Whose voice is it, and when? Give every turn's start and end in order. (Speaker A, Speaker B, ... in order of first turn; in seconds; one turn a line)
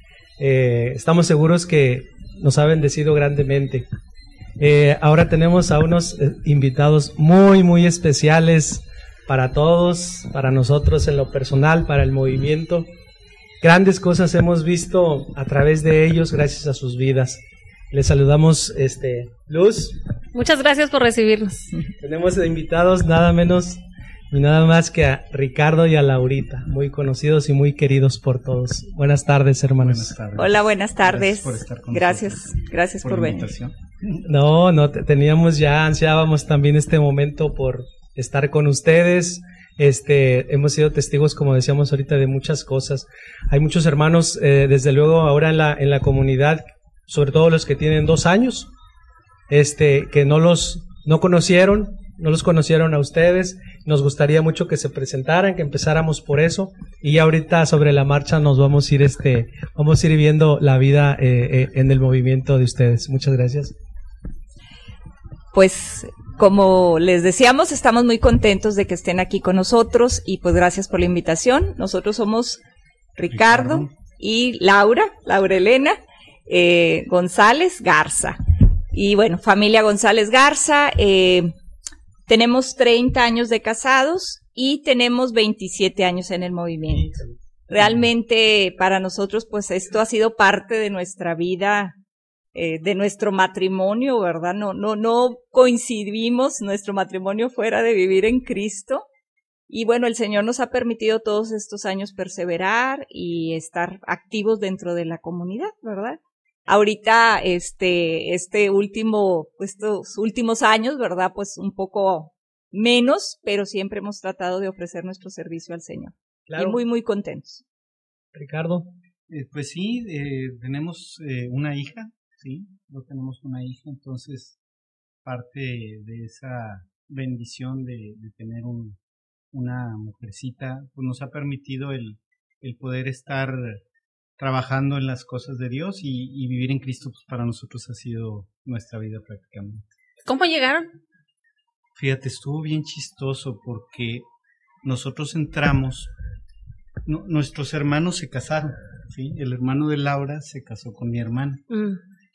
Speaker A: 0.4-3.9
Speaker A: 4.6-12.9
Speaker A: 13.6-20.0
Speaker B: 20.3-21.7
Speaker A: 22.0-23.8
Speaker A: 24.3-30.1
Speaker C: 29.8-34.2
Speaker D: 30.4-33.5
Speaker A: 34.2-48.7
Speaker A: 49.5-63.7
Speaker D: 65.5-72.6
Speaker D: 73.2-78.4
Speaker C: 73.3-73.9
Speaker D: 78.9-81.5
Speaker D: 82.3-91.9
Speaker A: 86.9-87.4
Speaker D: 92.5-99.0
Speaker D: 99.7-117.6
Speaker A: 116.5-116.8
Speaker A: 118.3-118.9
Speaker C: 119.3-124.6
Speaker C: 125.2-129.0
Speaker C: 129.5-133.8
Speaker C: 134.4-139.9
Speaker B: 140.3-140.9
Speaker C: 142.0-144.2
Speaker C: 144.8-146.1
Speaker C: 147.1-151.6
Speaker B: 151.7-152.0